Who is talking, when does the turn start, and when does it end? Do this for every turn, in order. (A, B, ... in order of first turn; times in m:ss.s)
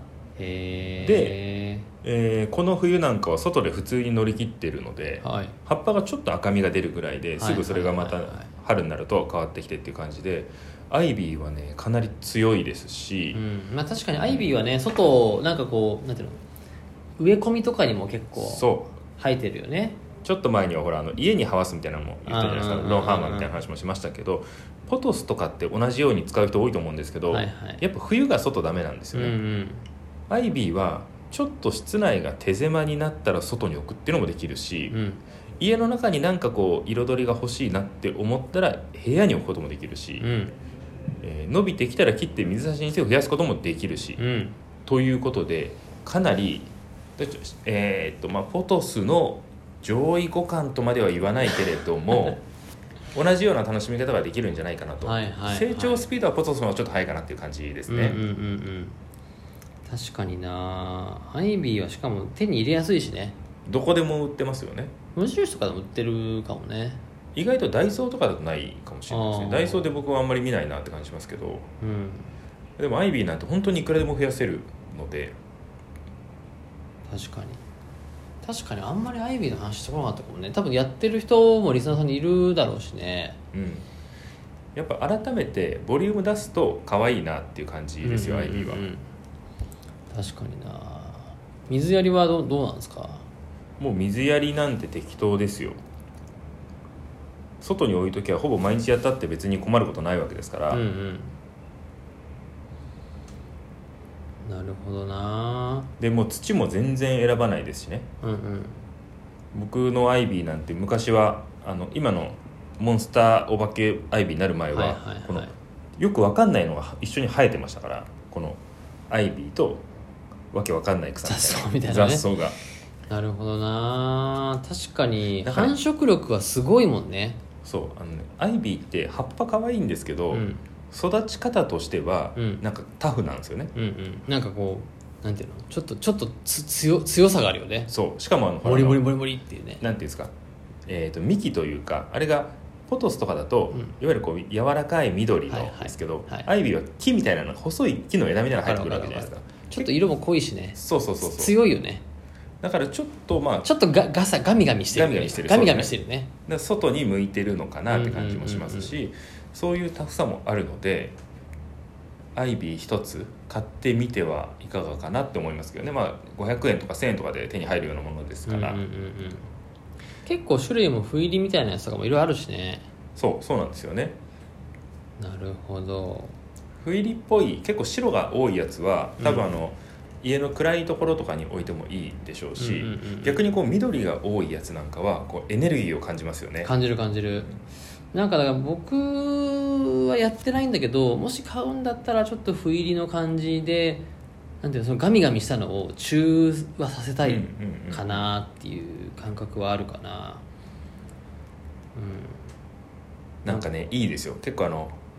0:00.4-0:01.9 A
0:01.0-0:01.4 B
0:02.0-0:13.4 B
0:05.2-0:05.6 A
0:07.4-0:08.5 A
0:13.3-0:16.4 A
0:17.2-0:20.0 A
0:18.4-0:19.0 B
0:20.2-0:29.4 B
0:22.2-0:23.6 A
0:27.3-0:27.8 A
0:29.1-0:29.8 A
0:30.3-0:35.0 B
0:34.9-0:35.2 A
0:35.6-0:40.3 B
0:40.2-0:40.6 A
0:41.2-0:44.2 B
0:44.2-0:44.6 A
0:44.8-0:52.4 B
0:53.1-0:58.2 B
0:55.0-0:56.1 A
0:57.9-0:59.0 A
0:59.8-1:03.4 A
1:03.6-1:04.9 B
1:05.1-1:07.0 A
1:07.3-1:11.7 B
1:09.1-1:10.0 A
1:11.8-1:12.3 A
1:12.8-1:15.4 B
1:17.1-1:17.6 A
1:18.4-1:23.4 A
1:23.5-1:23.8 B
1:24.8-1:28.9 B
1:28.0-1:29.0 A
1:30.1-1:33.2 A
1:33.8-1:35.8 B
1:37.6-1:40.8 B
1:40.7-1:41.4 A
1:44.4-1:45.9 A
1:46.0-1:48.1 B
1:48.2-1:48.8 A
1:49.5-1:59.8 B
1:54.7-1:55.5 A
2:00.5-2:02.6 B
2:01.2-2:02.3 A
2:03.1-2:07.4 A
2:05.4-2:05.7 B
2:07.6-2:13.7 B
2:10.3-2:10.6 A
2:12.4-2:12.6 A
2:13.7-2:17.9 A
2:17.9-2:19.1 B
2:18.6-2:19.8 A
2:19.8-2:20.3 B
2:20.9-2:29.9 B
2:25.5-2:26.5 A
2:28.6-2:32.0 A
2:30.7-2:31.6 B
2:32.6-2:33.7 B
2:33.6-2:36.3 A
2:34.9-2:35.9 B
2:36.4-2:41.2 B
2:37.9-2:38.9 A
2:42.4-2:48.8 B
2:48.5-2:49.5 A
2:50.2-2:52.9 A
2:53.2-2:54.2 B
2:55.2-2:56.4 A
2:56.8-3:06.7 B
2:59.2-2:59.5 A
3:02.6-3:03.4 A
3:06.6-3:07.5 A
3:08.1-3:14.0 A
3:14.6-3:20.4 A
3:17.2-3:18.2 B
3:21.9-3:22.4 A
3:23.4-3:23.9 A
3:23.4-3:25.0 B